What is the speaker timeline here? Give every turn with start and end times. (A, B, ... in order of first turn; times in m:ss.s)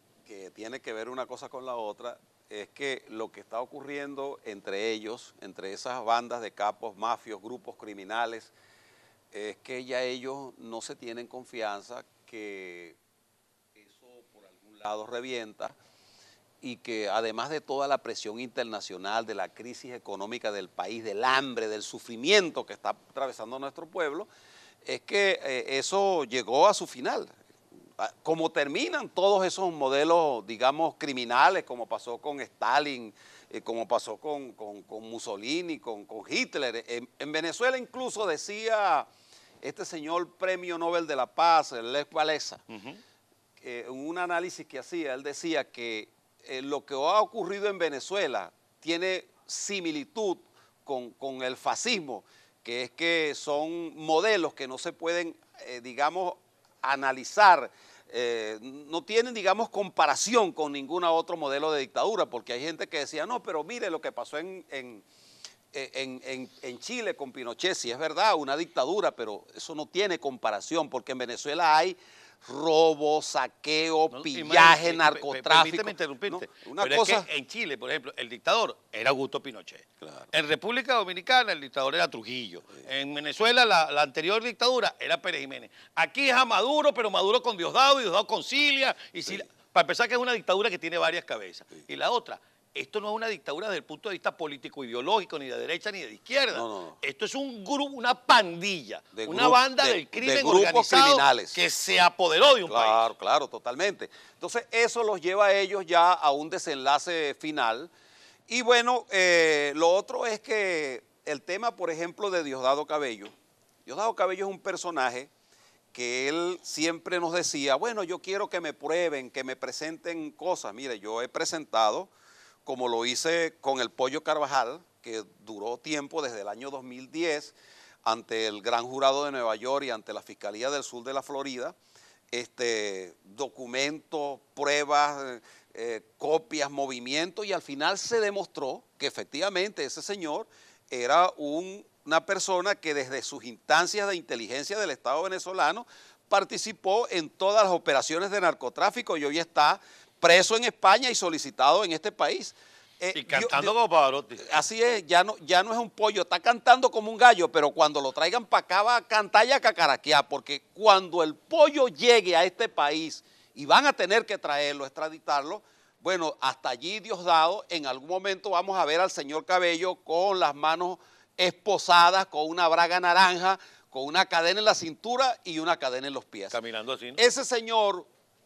0:00.2-0:08.5 A
0:09.3-0:13.0 A
0:13.8-0:15.7 A
0:16.6-0:24.3 A
0:24.8-0:27.4 A
0:28.0-0:39.1 A
0:39.6-0:42.6 A
0:42.7-0:43.0 B
0:43.6-1:05.0 A
1:05.7-1:17.2 A
1:14.1-1:43.1 B
1:20.0-1:20.3 A
1:36.5-1:37.0 A
1:39.1-1:41.6 A
1:42.7-1:47.9 A
1:48.5-1:53.3 A
1:53.8-1:55.3 A
1:55.9-2:02.1 A
2:02.6-2:11.8 A
2:12.3-2:33.7 A
2:33.1-2:34.4 B
2:34.4-2:56.6 A
2:56.5-2:57.2 B
2:57.2-2:58.1 A